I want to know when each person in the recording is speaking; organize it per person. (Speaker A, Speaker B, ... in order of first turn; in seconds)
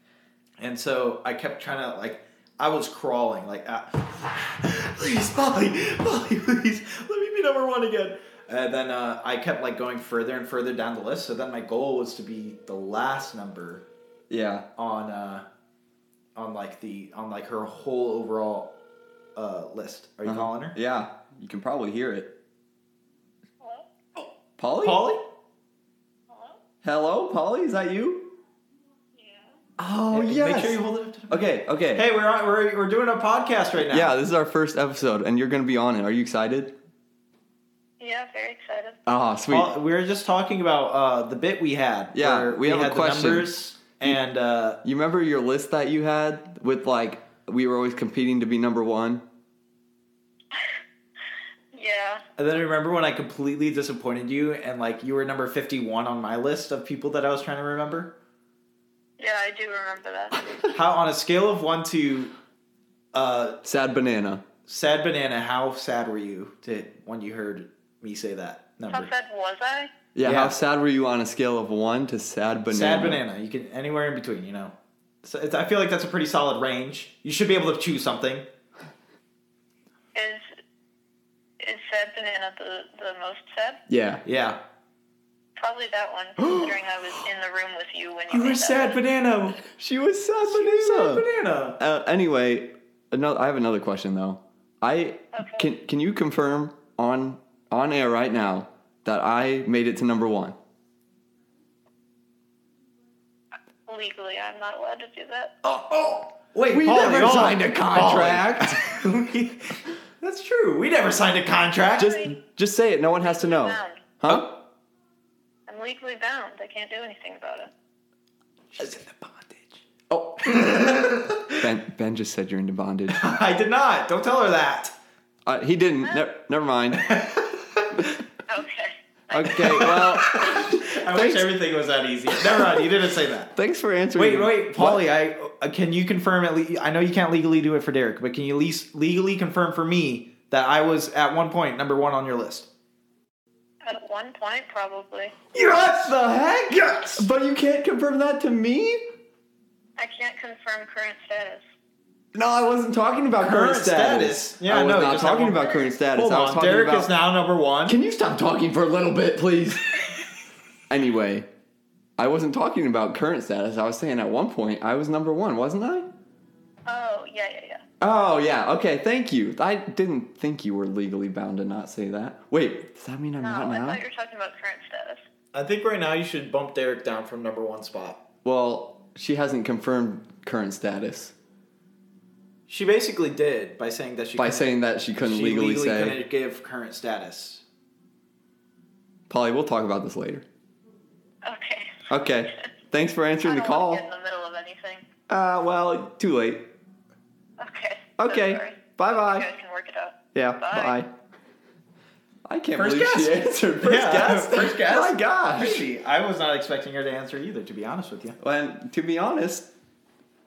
Speaker A: 0.6-13.8, 14.8-15.4, 16.3-18.7, 19.3-20.8, 24.8-25.3, 30.1-34.2, 39.5-44.8, 52.4-58.1, 60.7-62.3, 63.1-63.6, 64.7-69.1, 70.2-70.5, 72.7-78.5, 84.2-84.6, 88.3-89.6, 90.4-91.8, 105.6-112.2, 114.2-114.5, 118.7-119.8, 120.4-121.7, 123.1-124.9, 126.9-128.2, 129.5-133.5, 134.1-142.7, 145.5-147.2, 153.4-158.0, 175.5-178.2, 182.7-187.6, 202.7-208.4
Speaker B: 14.3-14.7, 20.2-22.3, 24.6-25.1, 26.8-28.4, 29.8-32.0, 33.8-36.7, 39.0-39.7, 42.1-43.5, 44.8-49.2, 63.6-64.4, 70.1-73.2, 83.9-84.2, 86.4-86.7, 89.6-91.2, 91.8-100.5, 106.7-108.8, 112.0-114.5, 120.1-123.2, 125.4-127.1, 129.3-131.5, 132.5-132.9, 133.5-135.0, 145.5-149.1, 152.3-157.1, 157.8-160.0, 160.9-161.5, 162.2-166.1, 168.0-174.0, 178.4-181.3, 184.3-186.2, 189.3-190.4, 192.1-194.0, 195.3-196.7, 198.2-199.5, 200.3-201.1, 202.4-205.8, 208.4-209.7
Speaker C: 23.6-24.2, 26.3-26.6, 29.1-29.6, 38.0-39.0, 51.7-52.2, 59.2-60.4, 68.9-69.9, 80.1-80.5, 81.6-83.8, 85.6-89.0, 95.3-95.7, 103.9-105.5, 112.0-112.3, 113.2-114.1, 115.7-117.7, 128.5-129.9, 143.8-145.3, 150.0-151.6, 166.8-167.8, 173.4-175.2, 191.4-192.1, 193.4-195.1, 197.6-201.0